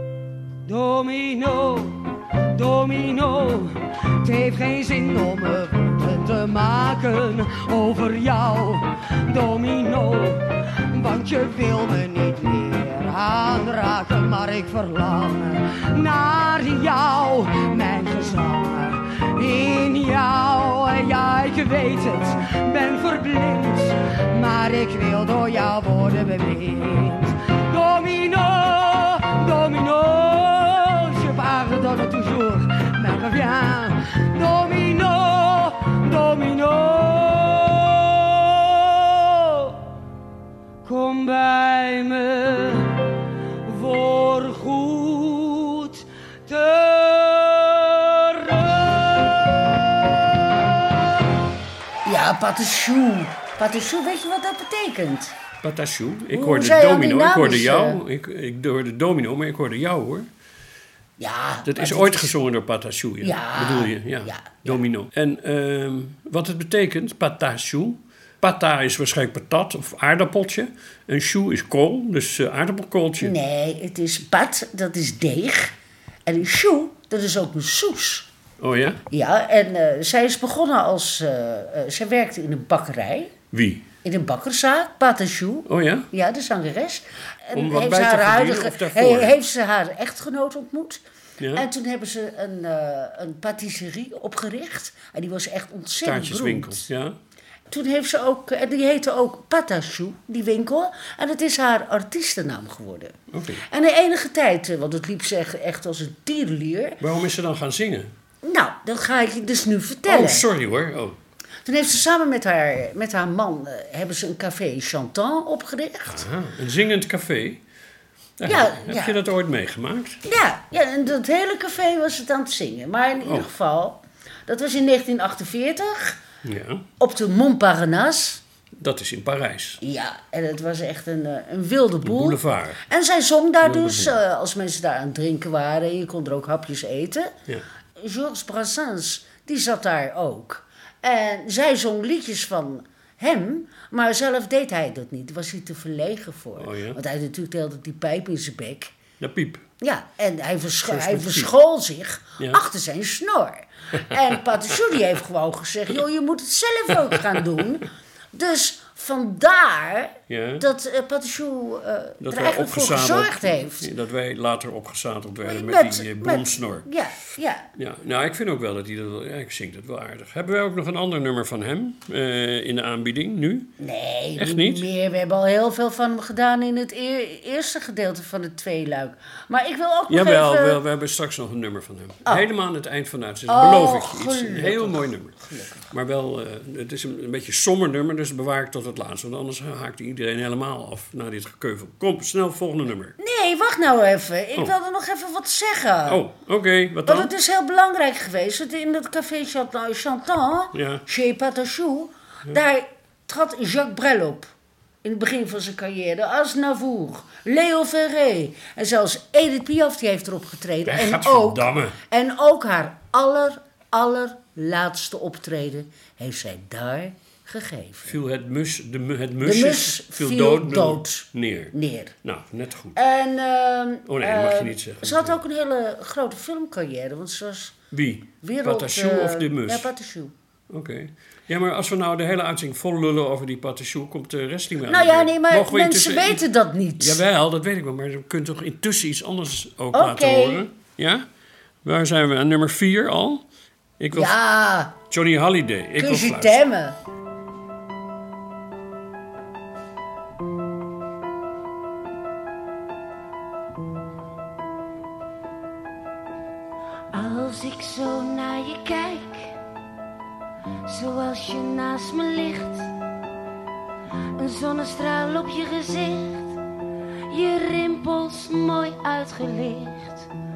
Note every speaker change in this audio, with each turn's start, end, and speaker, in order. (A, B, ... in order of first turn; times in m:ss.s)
0:00.6-0:39.8 A
0:40.8-0:43.1 A
0:43.6-0:49.3 A
0:52.0-0:55.3 B
0:55.6-1:00.3 C
0:56.3-0:58.0 B
1:01.2-1:02.3 B
1:01.6-1:13.3 C
1:03.2-1:04.8 B
1:13.2-1:15.7 B
1:16.2-1:18.3 B
1:18.6-1:19.0 C
1:19.1-1:23.3 B
1:23.5-1:23.8 C
1:24.0-1:31.0 B
1:25.7-1:26.1 C
1:27.5-1:29.3 C
1:31.4-1:31.6 C
1:31.5-1:36.9 B
1:36.0-1:37.2 C
1:37.7-1:43.2 B
1:43.3-1:43.6 C
1:43.7-1:47.0 B
1:47.0-1:48.1 C
1:48.4-1:50.4 B
1:50.0-1:51.2 C
1:51.6-1:56.2 B
1:56.1-1:57.6 C
1:58.4-2:00.2 C
1:58.4-1:59.2 B
2:00.2-2:06.2 B
2:03.2-2:03.5 C
2:06.4-2:06.8 C
2:07.0-2:08.4 B
2:08.8-2:09.8 C
2:09.8-2:17.3 B
2:12.0-2:12.8 C
2:13.6-2:14.1 C
2:18.0-2:28.9 B
2:26.6-2:27.0 C
2:29.2-2:29.6 C
2:29.8-2:43.9 B
2:30.8-2:31.5 C
2:40.3-2:40.6 C
2:42.2-2:46.9 C
2:45.4-2:47.7 B
2:47.8-2:53.7 C
2:53.8-3:00.8 B
2:54.4-2:54.8 C
3:00.1-3:13.2 C
3:03.5-3:05.9 B
3:13.2-3:16.2 B
3:16.0-3:17.3 C
3:17.0-3:24.5 B
3:20.7-3:21.0 C
3:25.0-3:38.2 B
3:30.9-3:32.0 C
3:38.0-3:43.0 C
3:39.4-3:42.1 B
3:42.9-3:47.8 B
3:44.1-3:45.4 C
3:47.9-3:49.9 C
3:48.4-3:50.3 B
3:50.7-3:56.4 C
3:54.9-3:57.2 B
3:57.0-4:01.2 C
3:59.9-4:00.6 B
4:01.8-4:03.4 C
4:04.0-4:04.4 C
4:04.1-4:04.9 B
4:05.1-4:06.6 C
4:06.0-4:07.0 B
4:17.1-4:19.6 A
4:20.8-4:22.9 A
4:24.4-4:26.5 A
4:27.3-4:30.3 A